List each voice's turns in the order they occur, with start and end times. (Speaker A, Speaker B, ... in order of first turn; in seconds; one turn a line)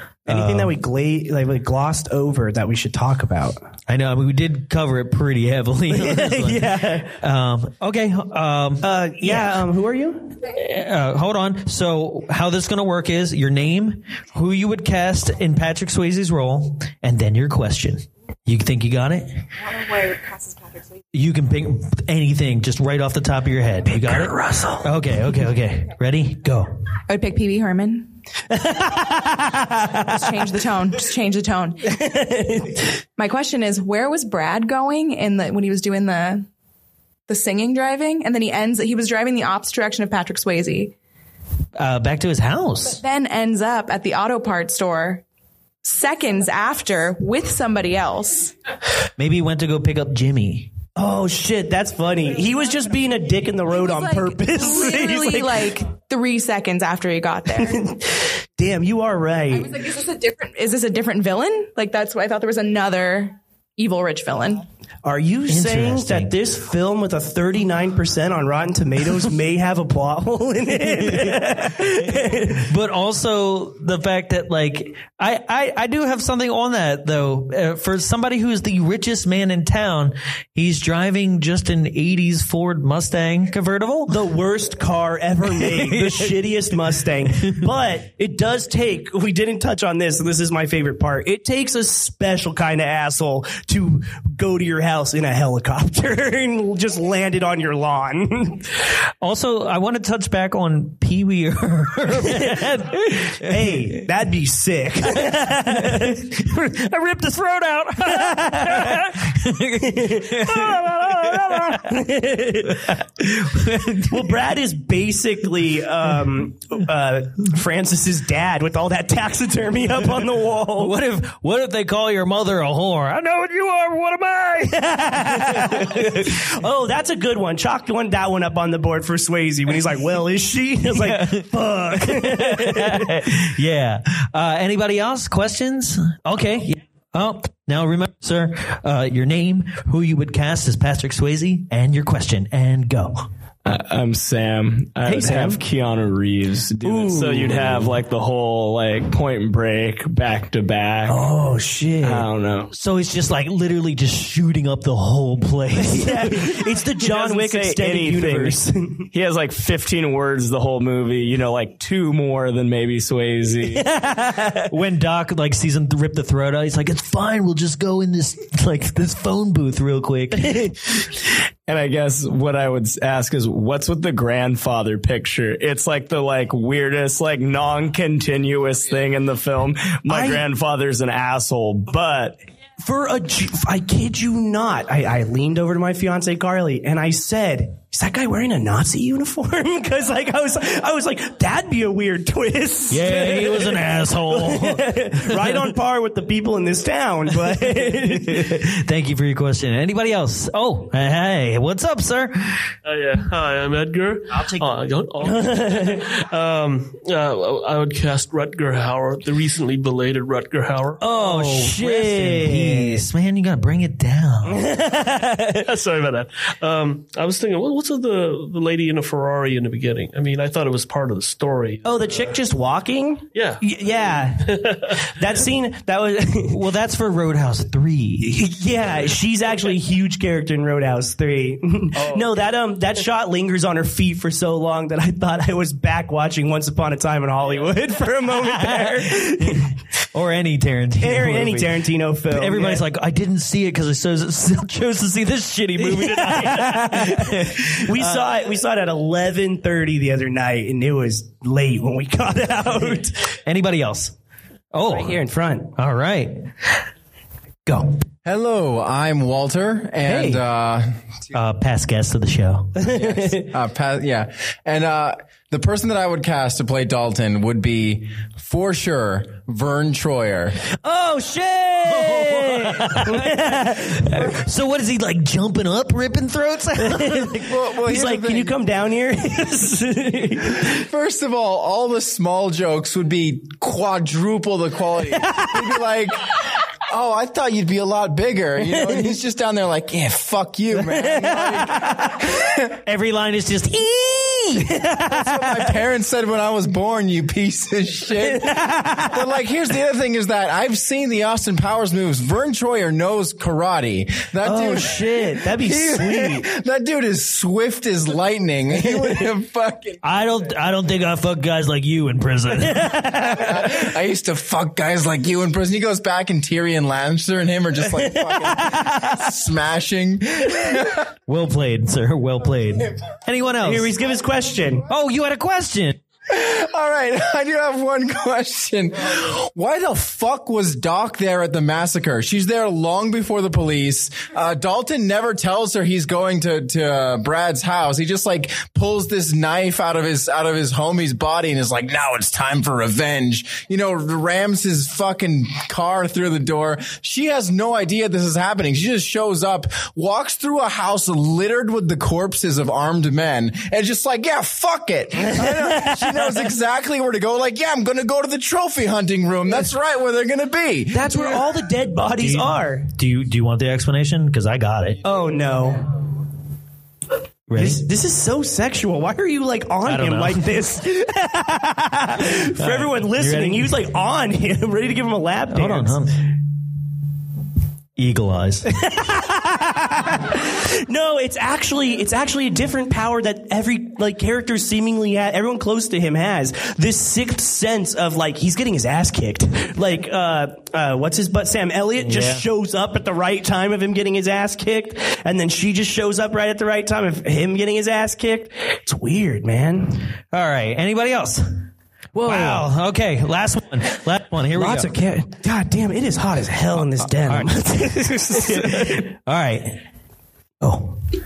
Speaker A: 0.3-0.7
Speaker B: 0.3-3.6
Speaker A: 3.9-9.5
Speaker B: 5.9-7.2
Speaker B: 8.8-10.3
Speaker A: 10.5-19.4
Speaker A: 21.1-26.7
Speaker B: 23.9-24.9
Speaker C: 27.1-28.1
Speaker B: 28.5-30.0
Speaker C: 30.1-31.9
Speaker B: 31.9-32.9
Speaker C: 33.2-36.5
Speaker C: 37.3-40.9
Speaker A: 41.8-43.0
Speaker C: 43.0-45.2
Speaker C: 45.8-48.5
Speaker A: 49.2-50.7
Speaker B: 51.0-55.7
Speaker C: 53.8-57.9
Speaker B: 57.6-59.8
Speaker C: 59.5-64.6
Speaker B: 65.0-72.7
Speaker A: 65.5-66.3
Speaker A: 71.0-71.9
Speaker A: 72.5-84.2
Speaker B: 84.1-98.7
Speaker A: 85.5-86.4
Speaker A: 99.2-104.0
Speaker B: 102.2-102.7
Speaker B: 103.4-106.2
Speaker A: 105.3-112.0
Speaker B: 108.1-109.1
Speaker B: 109.8-113.0
Speaker A: 112.9-114.3
Speaker B: 114.1-120.9
Speaker A: 120.8-126.3
Speaker B: 125.1-133.2
Speaker A: 130.9-143.3
Speaker D: 143.7-151.3
Speaker B: 145.0-145.6
Speaker B: 146.8-148.0
Speaker B: 151.1-152.3
Speaker D: 152.0-152.7
Speaker A: 152.7-158.6
Speaker B: 155.7-159.1
Speaker D: 157.3-158.4
Speaker D: 159.1-163.9
Speaker B: 163.6-164.7
Speaker A: 164.7-170.7
Speaker D: 171.7-182.4
Speaker B: 180.1-180.4
Speaker B: 182.8-198.6
Speaker A: 192.9-195.7
Speaker A: 197.8-202.7
Speaker E: 202.8-211.0
Speaker B: 205.2-206.0
Speaker B: 211.0-213.1
Speaker A: 211.0-214.7
Speaker B: 214.4-215.7
Speaker E: 215.6-222.3
Speaker B: 221.8-226.6
Speaker E: 223.3-223.6
Speaker E: 224.4-225.0
Speaker A: 226.5-228.4
Speaker B: 228.2-239.7
Speaker E: 232.0-232.4
Speaker A: 238.5-248.3
Speaker B: 241.0-242.8
Speaker B: 245.8-253.2
Speaker A: 253.4-254.1
Speaker A: 254.7-255.2
Speaker B: 254.9-255.7
Speaker A: 255.8-256.5
Speaker A: 257.6-258.0
Speaker F: 258.2-260.9
Speaker A: 260.1-260.4
Speaker A: 261.3-262.9
Speaker B: 262.8-263.5
Speaker F: 263.4-270.6
Speaker B: 270.8-274.2
Speaker A: 271.8-277.5
Speaker B: 276.8-280.8
Speaker F: 277.4-278.6
Speaker F: 280.6-286.4
Speaker B: 285.1-285.7
Speaker F: 286.9-292.7
Speaker B: 288.6-289.2
Speaker B: 290.7-292.2
Speaker A: 292.8-294.8
Speaker B: 294.7-295.7
Speaker F: 295.1-298.5
Speaker B: 298.1-299.3
Speaker F: 299.1-310.0
Speaker B: 304.4-306.4
Speaker B: 308.7-309.2
Speaker A: 310.0-313.2
Speaker B: 312.6-313.7
Speaker F: 313.2-321.0
Speaker B: 318.0-319.1
Speaker A: 321.3-323.9
Speaker B: 323.6-324.9
Speaker A: 324.9-326.0
Speaker F: 326.3-360.9
Speaker B: 355.2-356.5
Speaker B: 360.9-362.9
Speaker A: 361.1-361.4
Speaker A: 362.1-365.0
Speaker B: 365.0-365.9
Speaker A: 367.5-367.9
Speaker B: 367.5-376.1
Speaker A: 369.9-370.5
Speaker A: 372.6-373.8
Speaker A: 375.5-376.2
Speaker A: 378.0-378.7
Speaker B: 378.7-400.0
Speaker A: 392.0-392.4
Speaker A: 400.3-404.9
Speaker B: 402.2-402.7
Speaker B: 404.5-409.1
Speaker A: 407.1-407.6
Speaker A: 408.3-409.8